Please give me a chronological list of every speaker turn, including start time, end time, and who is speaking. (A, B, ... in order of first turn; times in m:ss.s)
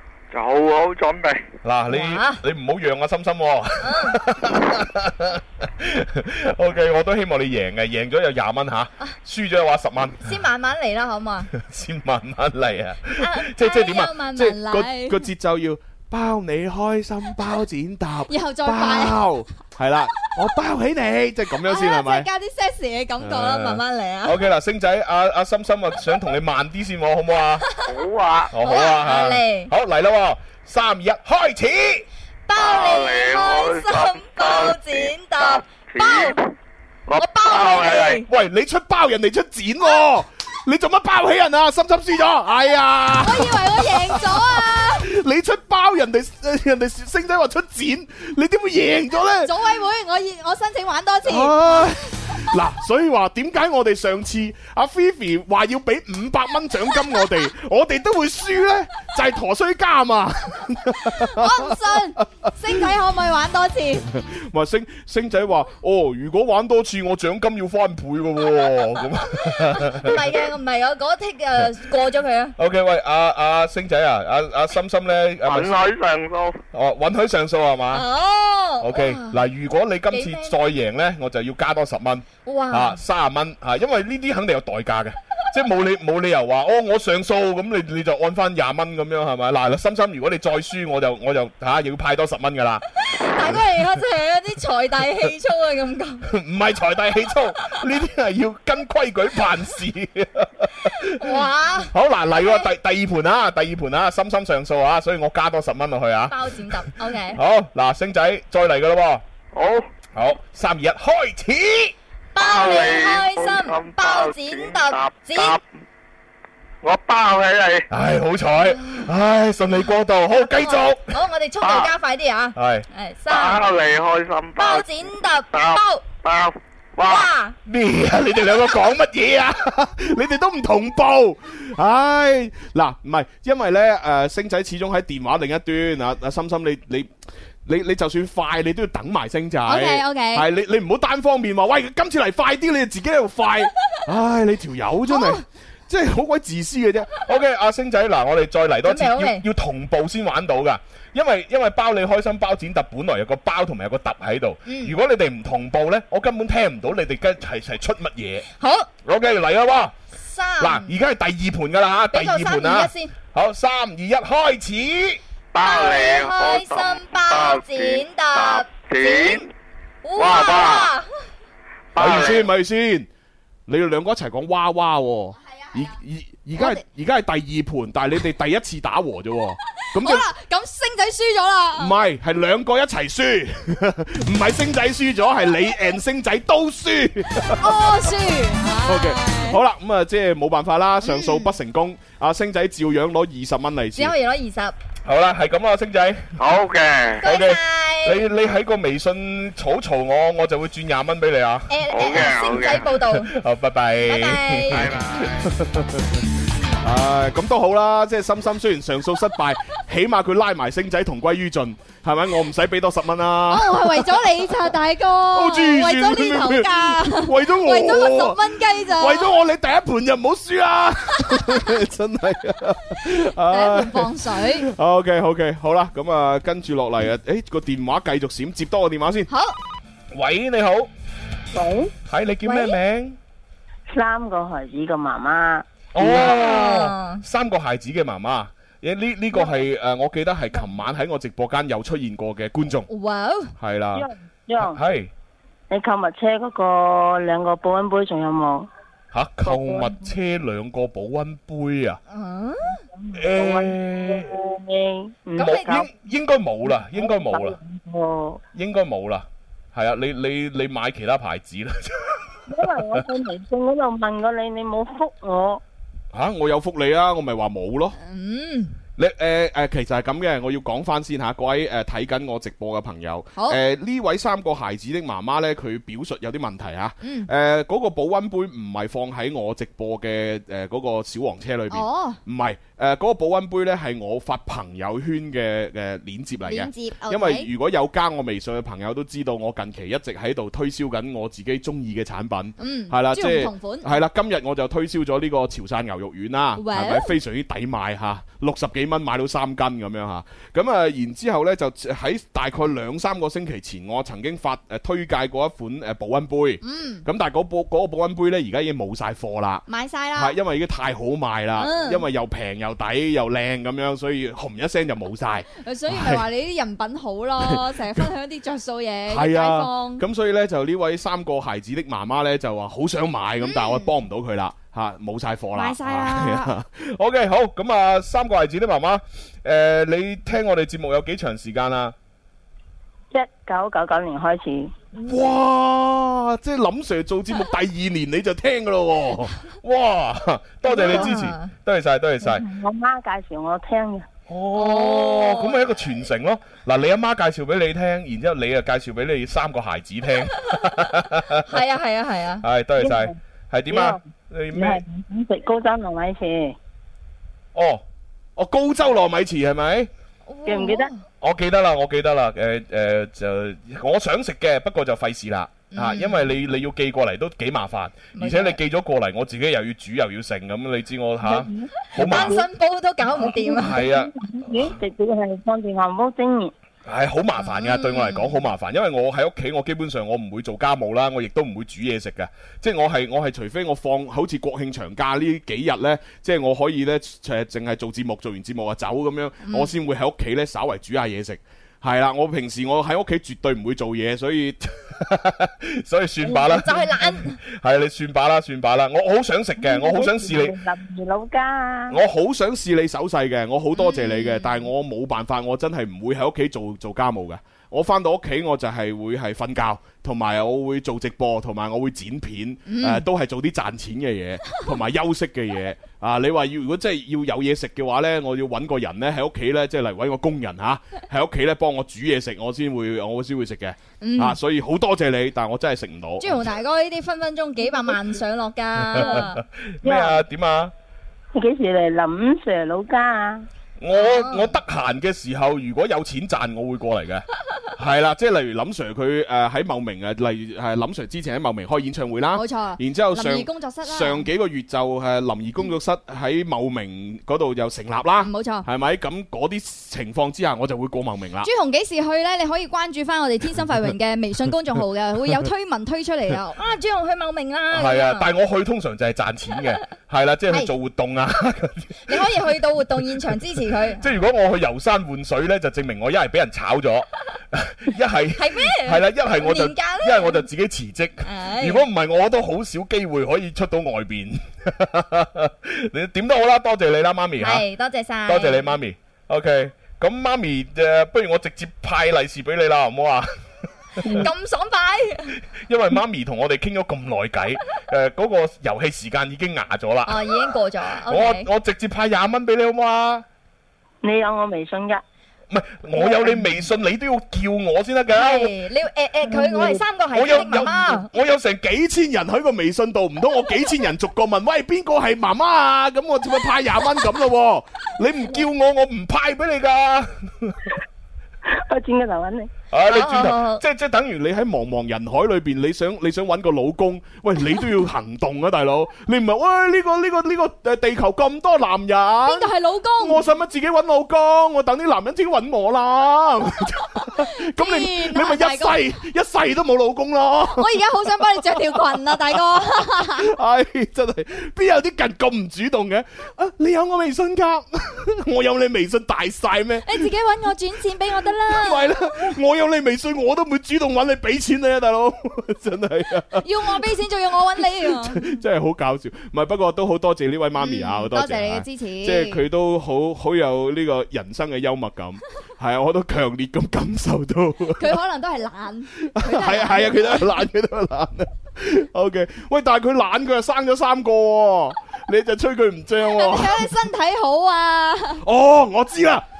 0:00.3-0:01.5 A
0:01.6-0:10.4 B
0:01.9-0:02.4 C
0:03.8-0:04.2 C
0:10.2-0:11.5 C
0:11.5-0:22.3 B
0:13.2-0:15.3 C
0:18.3-0:19.3 C
0:21.6-0:24.4 C
0:23.2-0:27.7 B
0:27.9-0:28.5 A
0:28.5-0:32.1 B
0:28.6-0:29.7 C
0:32.5-0:36.4 C
0:32.6-0:36.5 A
0:37.1-0:38.2 A
0:37.2-0:38.3 C
0:38.2-0:49.5 B
0:43.2-0:45.1 C
0:49.4-0:51.9 C
0:51.2-1:02.9 B
1:01.0-1:04.1 C
1:04.2-1:10.3 B
1:09.3-1:12.6 C
1:12.6-1:15.8 B
1:15.4-1:16.6 A
1:16.7-1:18.1 B
1:17.9-1:19.4 C
1:18.8-1:32.8 B
1:20.1-1:20.6 C
1:22.5-1:23.0 C
1:33.1-1:36.2 C
1:33.4-1:33.8 B
1:36.2-1:49.2 B
1:41.2-1:42.7 C
1:46.3-1:47.4 C
1:49.5-1:49.9 A
1:50.1-1:52.0 B
1:52.4-1:55.6 C
1:52.4-1:55.6 A
1:56.8-1:57.9 A
1:57.9-2:01.7 B
2:00.5-2:03.6 C
2:01.6-2:01.9 A
2:02.6-2:02.9 B
2:03.3-2:05.0 A
2:04.6-2:06.0 C
2:05.5-2:07.3 A
2:07.0-2:07.6 C
2:07.7-2:17.1 B
2:17.6-2:38.5 B
2:19.7-2:20.5 C
2:25.1-2:25.4 C
2:28.8-2:29.4 C
2:34.7-2:35.0 C
2:38.6-2:38.9 C
2:39.0-2:40.0 B
2:40.2-2:41.0 C
2:40.6-2:45.2 B
2:42.1-2:43.1 C
2:45.5-2:49.5 A
2:45.6-2:49.4 C
2:50.0-2:51.0 C
2:50.2-2:50.9 A
2:51.9-2:52.5 A
2:52.0-2:53.1 B
2:53.7-3:00.3 B
2:55.5-2:56.0 C
2:56.6-2:56.8 C
3:00.0-3:02.0 C
3:01.8-3:08.1 B
3:07.6-3:09.6 C
3:08.8-3:14.2 B
3:11.0-3:11.6 C
3:14.0-3:14.8 C
3:15.0-3:16.4 B
3:16.4-3:17.2 A
3:17.2-3:18.2 C
3:17.2-3:22.3 B
3:21.7-3:23.3 C
3:21.9-3:22.9 A
3:22.9-3:26.2 B
3:24.0-3:24.8 C
3:24.7-3:25.4 A
3:26.8-3:34.4 B
3:33.5-3:39.3 C
3:35.3-3:49.3 B
3:43.5-3:44.7 C
3:49.3-3:49.6 C
3:50.1-3:50.9 B
3:51.5-3:51.9 D
3:52.0-3:53.2 B
3:52.4-3:52.8 C
3:53.9-3:55.7 D
3:55.9-4:02.9 B
3:56.0-3:57.2 C
4:02.9-4:03.5 C
4:03.6-4:04.1 B
4:03.9-4:04.8 D
4:04.6-4:05.1 B
4:05.7-4:08.7 D
4:09.1-4:12.0 B
4:09.4-4:10.1 D
4:12.1-4:12.8 C
4:13.0-4:15.8 D
4:13.1-4:14.4 B
4:15.4-4:15.9 C
4:15.4-4:17.6 B
4:16.7-4:18.4 D
4:18.5-4:23.0 B
4:22.5-4:25.6 D
4:26.1-4:28.0 B
4:28.0-4:28.8 C
4:29.0-5:09.6 B
4:37.0-4:37.3 C
4:41.7-4:42.2 C
4:46.4-4:47.5 C
4:52.6-4:54.0 C
4:56.6-4:57.2 C
5:06.6-5:07.0 C
5:09.7-5:10.4 C
5:10.2-5:16.3 B
5:11.6-5:12.0 C
5:15.6-5:20.0 C
5:17.4-5:18.1 B
5:19.1-5:32.0 B
5:23.4-5:23.9 C
5:25.6-5:26.5 C
5:33.1-5:34.7 D
5:35.0-5:42.4 B
5:40.6-5:41.5 C
5:40.8-5:41.2 D
5:42.2-5:44.1 D
5:44.3-5:51.6 B
5:44.5-5:45.6 C
5:51.5-5:52.4 C
5:52.4-5:54.8 B
5:52.8-5:53.2 D
5:53.7-5:54.0 D
5:54.5-5:56.6 D
5:57.5-5:57.8 B
5:58.4-5:59.9 B
6:00.3-6:01.0 C
6:00.5-6:00.9 D
6:01.2-6:12.5 B
6:05.7-6:06.4 C
6:08.2-6:08.6 C
6:11.3-6:12.4 D
6:12.0-6:13.8 C
6:13.1-6:14.8 B
6:13.2-6:16.5 D
6:16.9-6:40.6 B
6:17.4-6:18.4 C
6:29.4-6:29.7 C
6:36.2-6:37.4 C
6:39.6-6:42.0 D
6:41.9-7:06.4 B
6:43.8-6:44.6 C
6:52.7-6:53.0 C
7:04.0-7:04.4 C
7:06.2-7:09.4 C
7:08.8-7:10.7 B
7:09.8-7:10.2 D
7:11.3-7:13.5 D
7:13.8-7:31.5 B
7:14.0-7:14.5 C
7:22.3-7:24.2 C
7:28.2-7:28.7 C
7:31.4-7:38.3 C
7:37.7-7:42.4 B
7:42.1-7:44.1 C
7:44.0-7:57.7 B
7:48.4-7:50.4 C
7:51.2-7:51.8 C
7:57.4-7:58.7 C
7:58.3-8:03.3 B
8:04.0-8:04.3 B
8:04.1-8:05.3 C
8:05.5-8:13.3 B
8:10.1-8:11.5 C
8:14.0-8:15.0 D
8:15.5-8:18.6 B
8:18.1-8:21.1 C
8:19.3-8:30.6 B
8:19.4-8:19.7 D
8:31.6-8:32.5 D
8:32.7-8:50.8 B
8:32.9-8:33.6 C
8:42.3-8:43.2 C
8:47.2-8:48.8 C
8:50.5-8:53.3 C
8:51.4-9:00.1 B
8:59.9-9:02.0 C
9:01.5-9:06.9 B
9:06.4-9:08.4 C
9:07.6-9:18.0 B
9:10.6-9:12.4 C
9:17.8-9:20.4 C
9:19.1-9:26.8 B
9:26.1-9:28.2 C
9:28.2-9:29.3 B